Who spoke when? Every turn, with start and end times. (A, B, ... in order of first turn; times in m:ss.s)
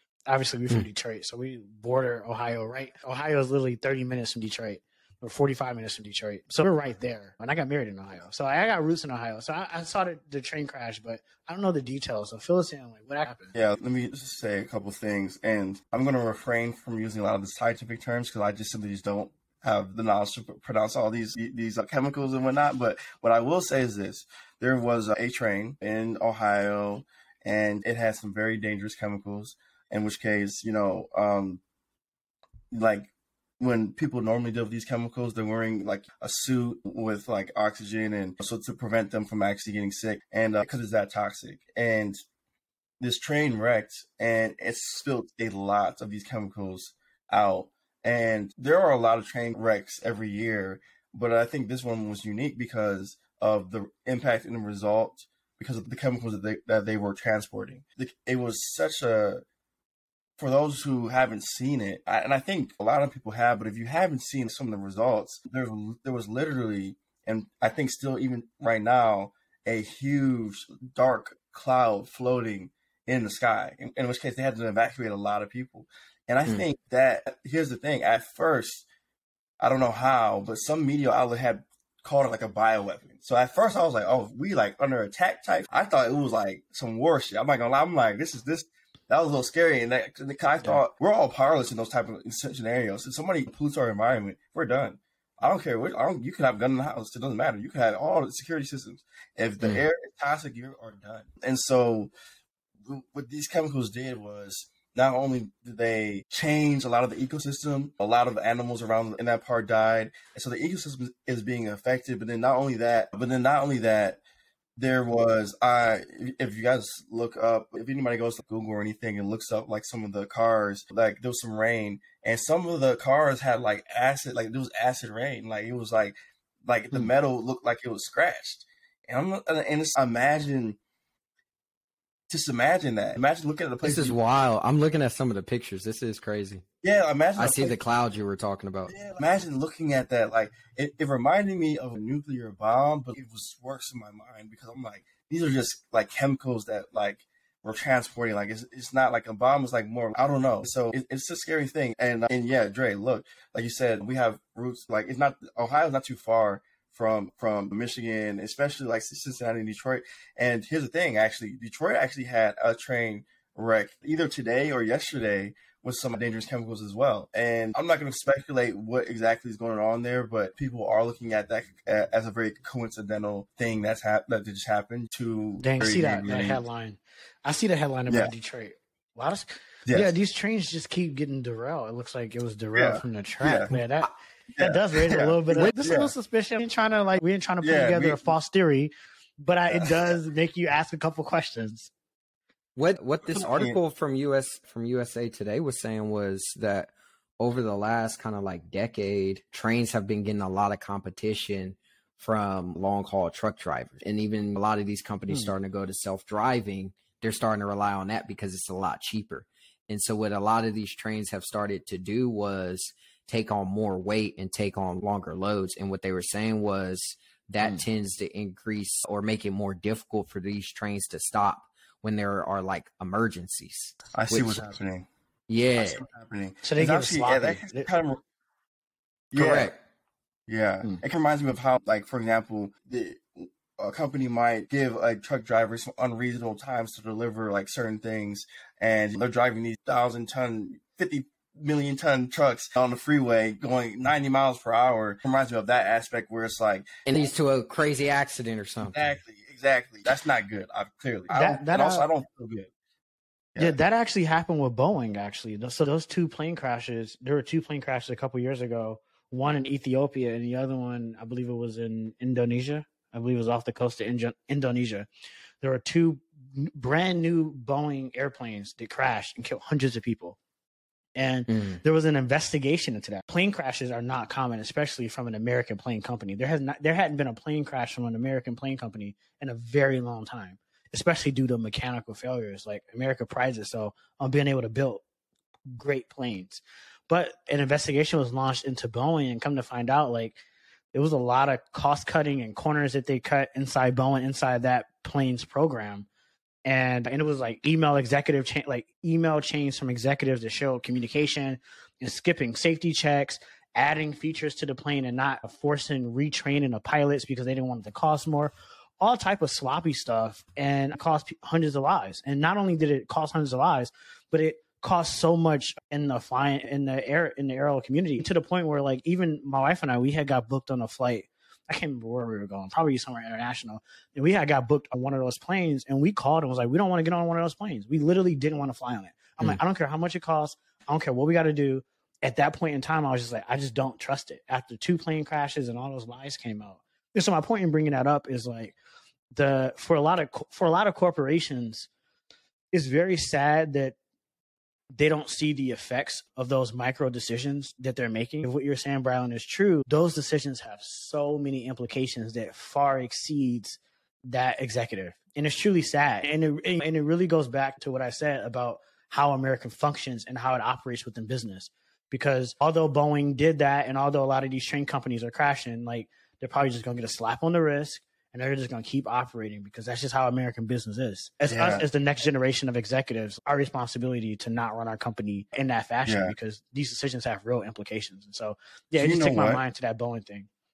0:00.3-0:13.5 A
0:13.6-0:31.6 B
0:32.7-0:42.2 B
0:43.0-0:59.4 B
1:00.4-1:18.9 B
1:19.6-1:42.1 B
1:42.8-1:54.2 B
1:54.8-2:10.8 B
2:12.3-2:14.2 B
2:13.8-2:16.6 C
2:16.8-2:17.8 B
2:17.4-2:18.9 C
2:18.9-2:56.6 B
2:55.6-3:11.9 A
2:59.9-3:00.2 B
3:02.8-3:03.7 B
3:04.5-3:06.1 B
3:07.6-3:08.2 B
3:09.7-3:10.1 B
3:12.8-3:44.7 C
3:13.4-3:13.8 B
3:44.1-3:45.1 B
3:45.5-3:46.0 C
3:45.8-3:48.2 B
3:46.6-3:47.9 A
3:49.3-3:49.7 B
3:49.4-3:49.8 C
3:50.5-4:06.9 B
4:07.1-4:09.2 C
4:08.9-4:12.7 B
4:11.3-4:12.1 A
4:13.6-4:25.1 A
4:25.6-4:30.4 A
4:31.2-4:45.0 A
4:31.5-4:31.8 C
4:45.7-4:50.4 A
4:50.9-4:56.1 A
4:56.7-5:38.8 A
5:39.4-5:41.9 A
5:42.7-5:44.0 A
5:44.9-6:20.5 A
6:11.5-6:11.9 B
6:16.1-6:16.3 B
6:19.0-6:19.6 B